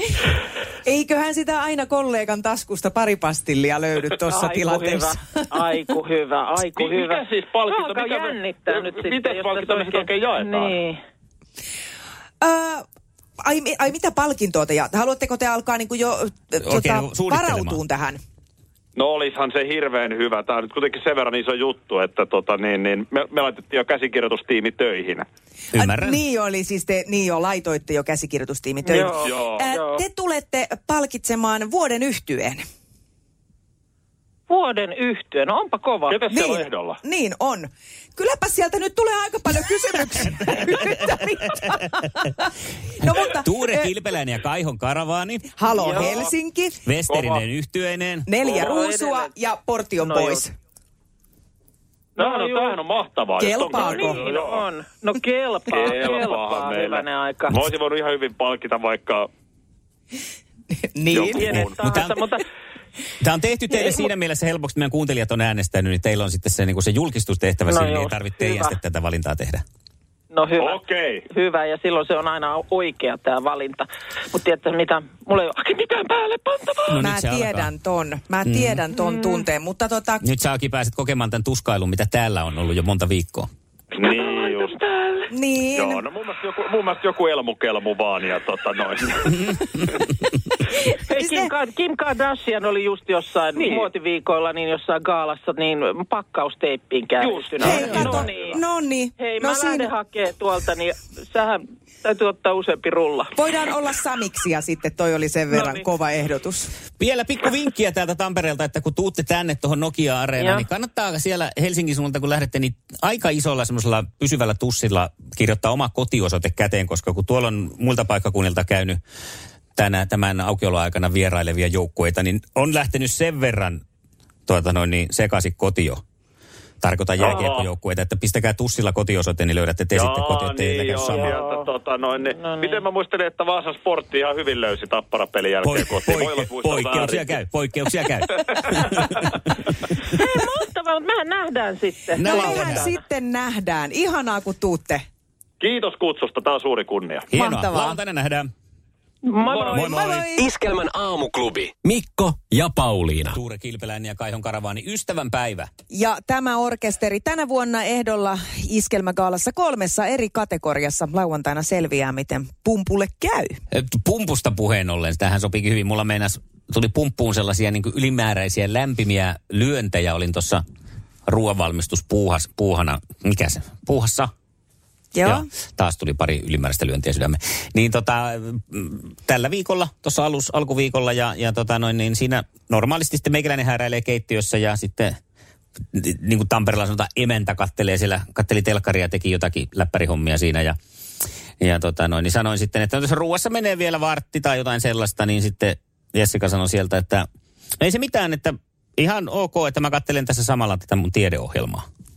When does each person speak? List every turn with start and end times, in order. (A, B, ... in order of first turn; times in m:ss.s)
0:00.8-0:05.5 A
0:04.3-0:11.0 B
0:06.7-0:10.8 C
0:12.4-0:12.8 A
0:13.4-0:18.2 A
0:16.6-0:17.8 D
0:19.0-0:25.2 C
0:25.7-0:26.2 D
0:25.8-0:32.6 A
0:28.8-0:30.0 B
0:29.2-0:29.6 C
0:34.5-0:36.2 B
0:36.1-0:37.0 C
0:36.3-0:42.5 A
0:43.0-0:43.9 A
0:43.0-0:45.5 D
0:45.6-0:46.8 A
0:45.8-0:46.3 C
0:46.8-0:48.3 D
0:47.1-0:47.4 C
0:48.3-0:50.5 A
0:48.5-0:49.3 B
0:50.0-0:50.4 B
0:52.2-0:52.8 B
0:52.2-0:54.6 C
0:53.4-0:54.2 A
0:53.7-0:57.6 B
0:55.7-0:59.3 C
1:00.7-1:01.6 A
1:01.1-1:01.8 C
1:01.4-1:02.4 B
1:01.4-1:02.2 D
1:03.2-1:09.6 D
1:03.7-1:04.1 B
1:07.7-1:08.8 B
1:10.3-1:16.9 B
1:10.6-1:11.2 C
1:16.9-1:17.7 D
1:17.0-1:20.2 A
1:18.4-1:18.8 D
1:20.2-1:23.5 D
1:23.9-1:24.7 C
1:24.0-1:25.2 B
1:25.3-1:26.0 A
1:25.7-1:29.4 C
1:30.9-1:38.6 B
1:31.1-1:31.5 A
1:37.2-1:38.6 C
1:37.6-1:39.9 A
1:37.7-1:38.2 D
1:39.2-1:43.4 B
1:43.4-1:46.7 A
1:45.5-1:45.9 B
1:47.0-1:59.0 D
1:50.4-1:50.7 B
1:59.8-2:03.8 D
2:04.5-2:06.0 D
2:06.8-2:11.4 D
2:07.2-2:07.7 C
2:09.9-2:17.3 C
2:11.1-2:11.6 B
2:12.4-2:12.8 B
2:15.6-2:19.3 D
2:19.0-2:19.3 C
2:20.0-2:23.0 B
2:22.2-2:22.9 D
2:22.2-2:25.0 A
2:25.6-2:27.2 C
2:27.3-2:28.5 D
2:27.3-2:28.0 A
2:29.2-2:30.1 B
2:29.4-2:29.9 C
2:29.7-2:30.5 A
2:30.3-2:32.6 E
2:33.3-2:35.7 D
2:35.9-2:43.6 A
2:43.7-2:50.6 D
2:51.2-2:54.3 D
2:55.1-2:55.4 A
2:55.2-3:05.2 D
3:05.9-3:10.8 D
3:11.6-3:17.2 D
3:17.8-3:21.8 D